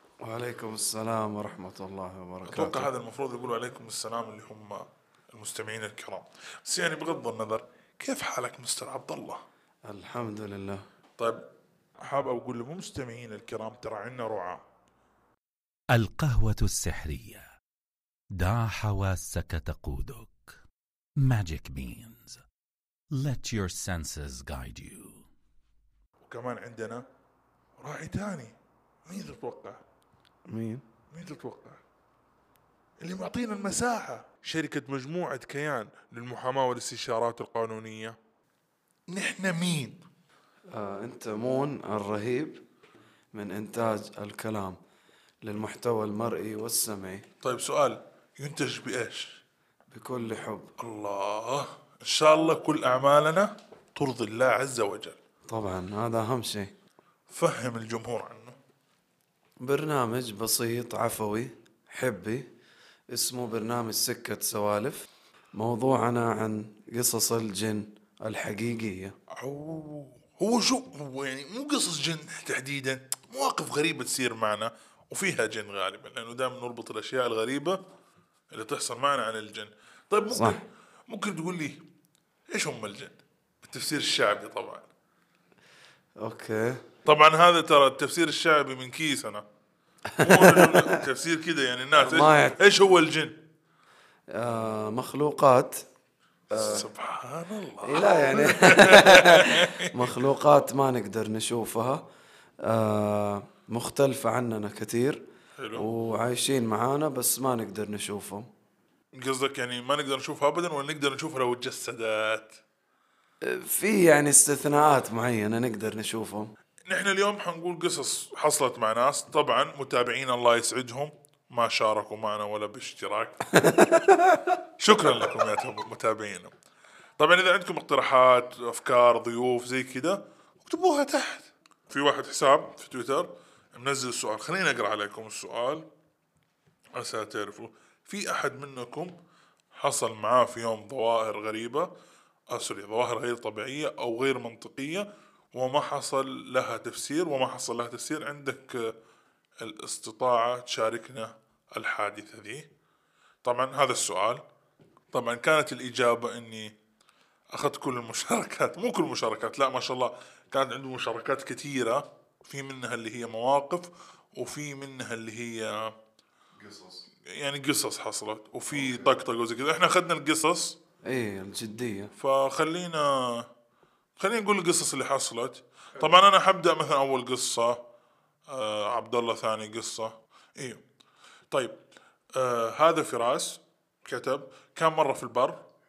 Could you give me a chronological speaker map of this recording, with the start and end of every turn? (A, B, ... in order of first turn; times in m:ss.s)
0:00.2-0:02.9 A
0:02.4-0:09.4 B
0:09.9-0:10.8 A
0:12.0-0:14.6 B
0:15.9-0:17.5 C
0:18.4-0:20.5 C
0:21.2-0:22.4 C
0:23.1-0:25.2 C
0:26.2-0:27.0 B
0:27.8-0:28.5 B
0:29.0-0:29.8 B
0:30.5-0:30.8 A
0:31.1-0:31.8 B
0:33.0-0:38.2 B
0:39.1-0:40.0 B
0:40.7-0:42.6 A
0:43.3-0:44.8 A
0:45.4-0:47.2 A
0:47.4-0:49.4 B
0:49.9-0:50.7 A
0:50.8-0:55.2 B
0:55.5-0:56.7 A
0:57.3-0:58.6 B
0:59.6-1:02.5 A
1:03.1-1:09.1 A
1:09.4-1:17.8 B
1:18.5-1:21.8 B
1:20.3-1:20.6 A
1:22.5-1:24.9 B
1:26.2-1:26.8 A
1:27.0-1:29.4 B
1:30.1-1:31.0 A
1:30.2-1:33.4 B
1:32.0-1:32.6 A
1:34.3-1:35.8 A
1:36.5-1:36.9 A
1:36.5-1:40.2 B
1:37.8-1:42.1 A
1:42.6-1:45.2 A
1:45.6-1:45.9 B
1:45.8-1:48.5 A
1:49.2-1:52.6 B
1:53.4-1:56.5 A
1:56.9-2:03.5 B
2:03.5-2:04.6 A
2:04.8-2:06.5 B
2:07.2-2:15.8 B
2:16.9-2:19.1 B
2:19.8-2:21.9 B
2:22.5-2:28.9 B
2:29.6-2:32.7 B
2:33.4-2:34.4 B
2:35.1-2:36.7 B
2:37.5-2:45.9 B
2:46.6-2:47.0 A
2:47.3-2:50.8 B
2:51.0-2:52.1 A
2:52.2-2:53.5 B
2:54.2-2:57.8 B
2:58.5-3:00.8 B
3:01.5-3:01.8 B
3:02.4-3:05.6 B